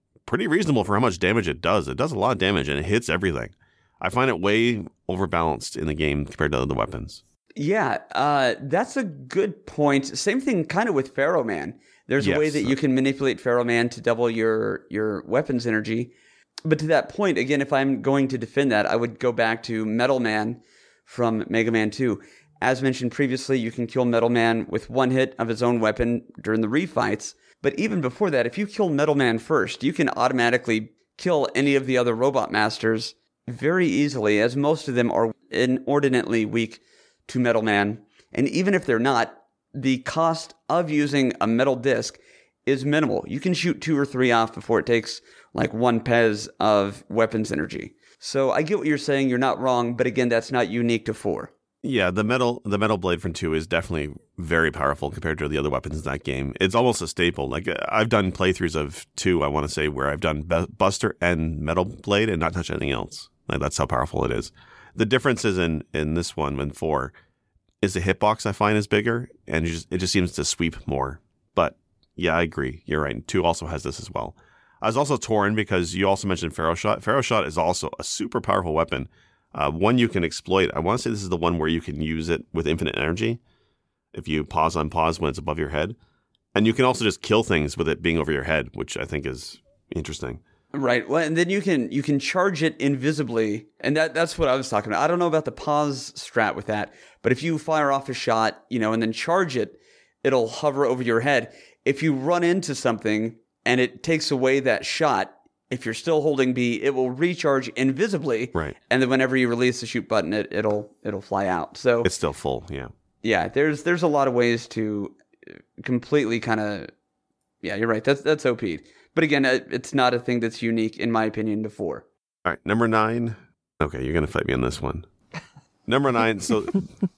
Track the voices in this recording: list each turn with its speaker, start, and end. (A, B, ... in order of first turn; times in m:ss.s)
0:00.3-0:07.2 A
0:07.6-0:16.1 B
0:12.2-0:12.7 A
0:16.6-0:51.5 B
0:51.8-1:07.1 A
1:07.8-1:23.4 A
1:24.1-1:26.0 A
1:26.6-1:30.4 A
1:30.7-1:52.1 B
1:52.0-1:52.9 A
1:53.2-1:55.2 B
1:55.8-1:56.9 B
1:57.6-2:02.0 B
2:02.4-2:05.1 A
2:05.9-2:06.9 A